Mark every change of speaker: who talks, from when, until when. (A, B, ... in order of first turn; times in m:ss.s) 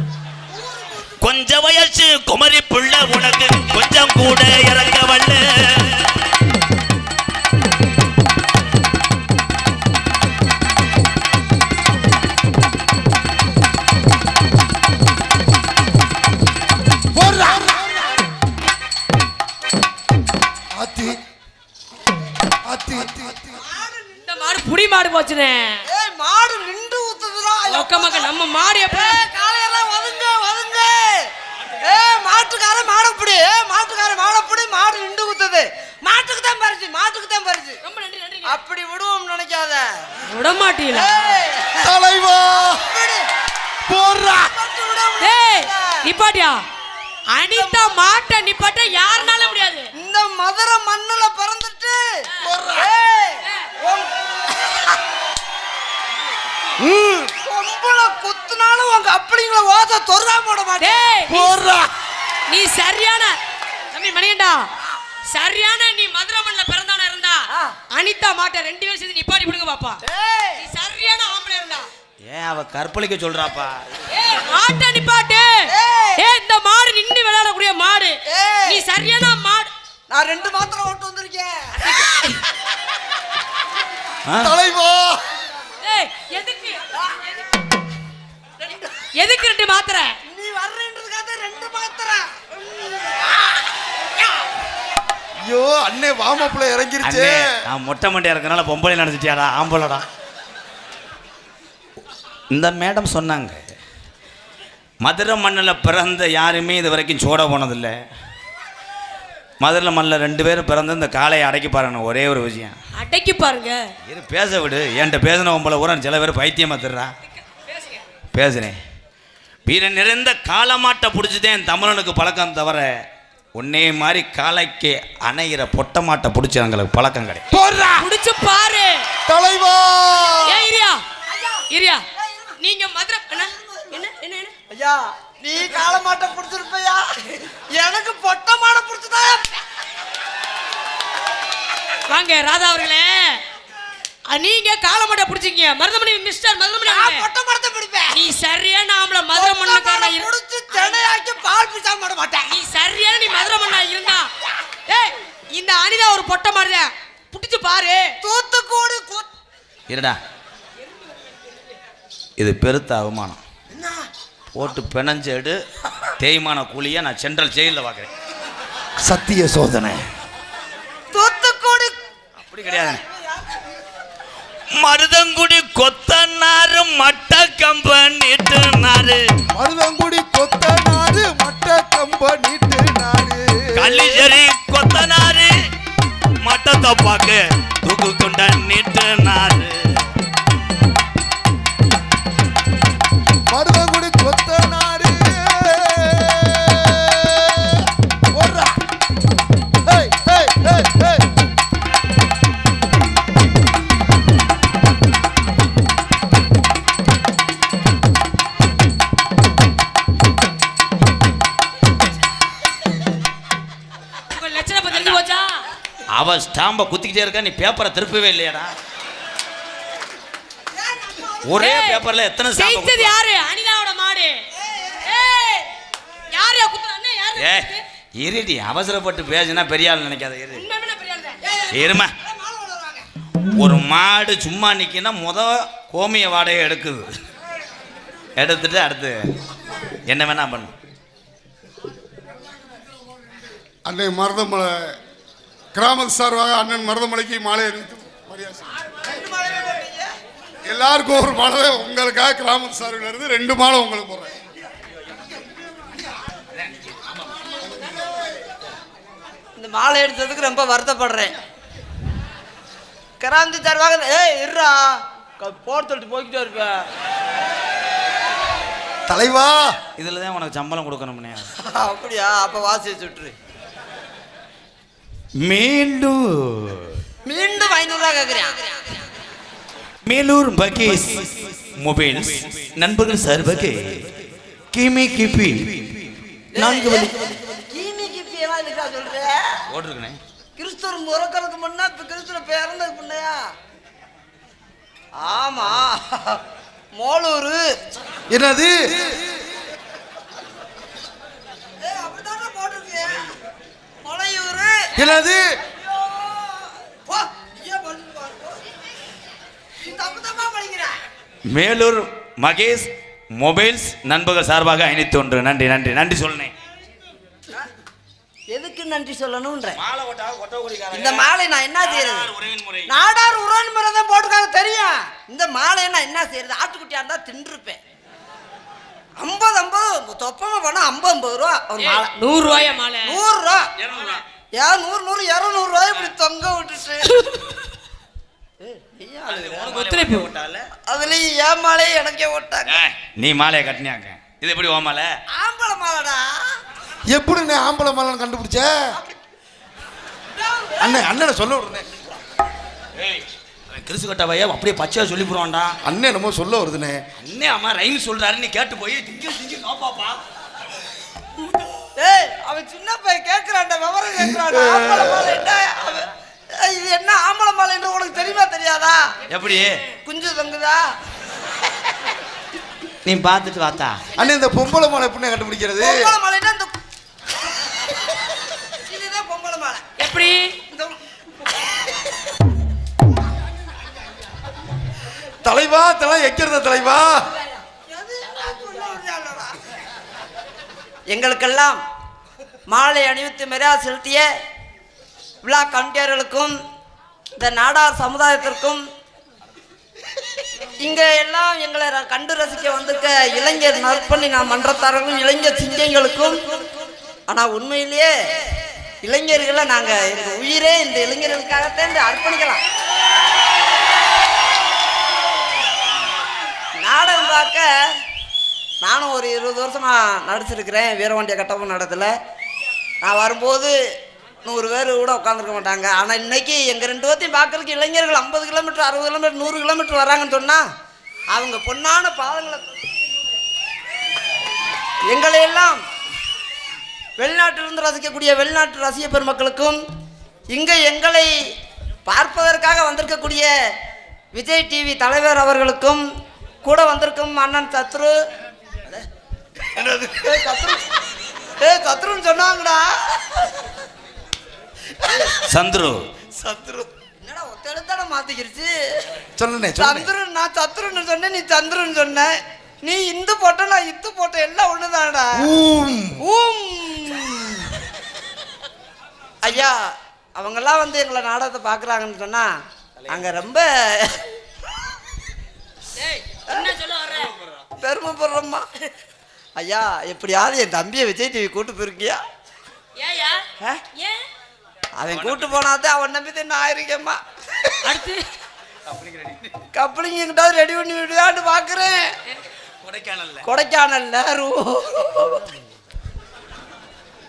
0:00.5-0:01.2 A
0:01.2-0:06.1 B
0:17.1-0:17.9 C
0:20.8-0:21.2 C
0:22.7-0:23.5 C
0:23.5-0:24.6 A
0:24.2-0:25.8 D
0:25.8-0:37.8 A
0:27.7-0:29.2 D
0:37.8-0:38.6 D
0:38.4-0:40.0 A
0:40.3-0:41.2 D
0:40.9-0:41.9 A
0:41.8-0:42.8 C
0:42.6-0:43.3 A
0:43.9-0:44.5 C
0:44.2-0:46.1 A
0:45.2-0:46.6 D
0:47.3-0:49.9 D
0:47.5-0:48.0 A
0:50.0-0:55.0 A
0:52.4-0:52.9 C
0:56.8-0:57.3 C
0:57.4-1:01.2 A
1:00.8-1:01.5 D
1:01.3-1:01.9 C
1:02.5-1:03.4 D
1:03.9-1:04.7 D
1:05.3-1:10.0 D
1:07.5-1:07.8 A
1:10.0-1:10.6 A
1:10.6-1:11.9 D
1:12.2-1:14.0 B
1:14.1-1:19.7 D
1:15.7-1:16.2 A
1:18.3-1:18.8 A
1:20.1-1:21.9 A
1:21.8-1:22.4 D
1:24.2-1:24.5 B
1:24.4-1:25.2 C
1:25.8-1:26.8 D
1:28.6-1:28.9 A
1:29.1-1:30.2 D
1:30.2-1:33.6 A
1:35.4-1:37.5 C
1:37.0-1:40.0 B
1:42.5-1:43.6 B
1:45.0-1:48.0 B
1:49.6-1:52.8 B
1:53.0-1:53.9 D
1:54.1-1:57.1 B
1:57.5-1:58.0 D
1:58.3-1:58.8 B
1:59.6-2:03.0 B
2:03.6-2:07.4 B
2:07.5-2:08.1 C
2:08.0-2:09.0 D
2:09.3-2:10.7 C
2:10.4-2:11.0 D
2:11.3-2:12.6 A
2:11.7-2:12.0 D
2:12.6-2:14.5 D
2:13.4-2:14.0 A
2:14.7-2:19.6 A
2:22.1-2:23.4 D
2:24.3-2:27.3 D
2:26.8-2:28.2 A
2:28.1-2:31.0 D
2:29.3-2:32.6 A
2:32.5-2:34.3 D
2:34.9-2:38.2 D
2:38.2-2:39.3 A
2:39.9-2:40.2 B
2:42.4-2:43.4 B
2:44.5-2:45.6 B
2:46.2-2:48.1 B
2:49.0-2:50.0 C
2:51.1-2:51.9 A
2:52.4-2:53.0 B
2:54.7-2:59.2 B
2:59.5-3:04.3 C
3:03.7-3:05.5 B
3:06.4-3:10.0 B
3:13.5-3:18.8 C
3:19.8-3:21.3 C
3:34.3-3:35.6 D
3:34.9-3:35.2 B
3:36.1-3:38.7 B
3:40.7-3:41.6 A
3:41.4-3:43.1 B
3:41.6-3:44.4 D
3:44.5-3:45.1 A
3:45.0-3:45.7 D
3:46.3-3:47.8 D
3:47.4-3:50.6 B
3:50.5-3:51.4 D
3:51.4-3:53.1 A
3:51.7-3:52.1 B
3:53.5-3:57.1 B
3:58.4-3:59.3 B
4:00.1-4:00.7 B
4:03.8-4:04.9 E
4:05.7-4:08.7 E
4:09.0-4:10.1 A
4:10.6-4:14.3 E
4:19.6-4:21.3 A
4:23.2-4:26.9 A
4:29.1-4:29.8 C
4:30.0-4:31.5 B
4:31.6-4:33.3 A
4:35.4-4:37.0 B
4:37.2-4:38.8 A
4:40.0-4:44.1 B
4:44.7-4:47.4 B
4:46.5-4:49.6 A
4:49.7-4:50.2 B
4:50.6-4:53.5 A
4:55.2-4:56.4 A
4:57.0-4:57.8 A
4:58.3-4:59.2 C
5:01.8-5:03.3 A
5:04.0-5:05.0 A
5:05.0-5:05.5 C
5:05.7-5:08.6 A
5:09.8-5:11.0 A
5:11.5-5:16.5 B
5:18.5-5:19.8 A
5:19.8-5:21.2 B
5:20.9-5:22.3 A
5:21.8-5:22.9 B
5:22.9-5:27.8 A
5:29.2-5:32.1 A
5:31.8-5:33.2 D
5:33.0-5:33.7 A
5:33.8-5:34.2 B
5:34.6-5:37.2 A
5:37.1-5:37.4 D
5:38.6-5:39.8 A
5:39.3-5:40.7 B
5:39.7-5:40.3 D
5:40.8-5:42.7 A
5:42.7-5:45.1 B
5:45.3-5:46.6 A
5:47.1-5:48.9 C
5:50.3-5:51.0 A
5:50.8-5:51.9 C
5:53.0-5:55.8 B
5:55.8-5:57.0 C
5:57.2-6:00.2 B
6:02.0-6:09.1 A
6:04.2-6:05.4 C
6:09.3-6:09.8 B
6:10.0-6:10.8 A
6:13.0-6:14.0 B
6:14.2-6:16.1 C
6:15.8-6:16.7 A
6:18.7-6:19.9 A
6:20.0-6:20.5 D
6:20.7-6:21.0 A
6:25.4-6:27.2 C
6:27.9-6:29.5 A
6:31.1-6:31.8 A
6:32.7-6:34.3 A
6:35.4-6:36.6 A
6:37.4-6:38.8 A
6:40.8-6:46.6 A
6:47.3-6:48.1 A
6:49.0-6:52.6 A
6:56.8-6:58.0 A
6:58.8-7:02.1 A
7:03.0-7:03.8 A
7:04.4-7:10.6 A
7:11.3-7:12.8 A
7:15.1-7:15.8 A
7:17.2-7:19.8 A
7:20.5-7:21.4 A
7:22.1-7:23.5 A
7:24.3-7:26.0 A
7:26.6-7:28.2 A
7:29.7-7:30.3 C
7:30.2-7:30.9 A
7:31.6-7:33.7 A
7:35.0-7:35.4 A
7:35.4-7:36.0 B
7:36.4-7:39.0 A
7:39.4-7:40.1 C
7:39.8-7:45.5 A
7:45.4-7:46.2 C
7:46.2-7:47.8 A
7:49.4-7:52.5 A
7:53.1-7:54.3 A
7:55.9-7:57.3 D
7:57.1-7:57.6 B
7:57.8-7:58.7 A
7:59.6-8:02.2 A
8:03.0-8:04.3 D
8:05.0-8:07.8 A
8:05.1-8:05.6 B
8:07.8-8:08.2 D
8:08.9-8:09.5 B
8:09.7-8:12.1 A
8:12.8-8:13.4 B
8:13.4-8:15.5 A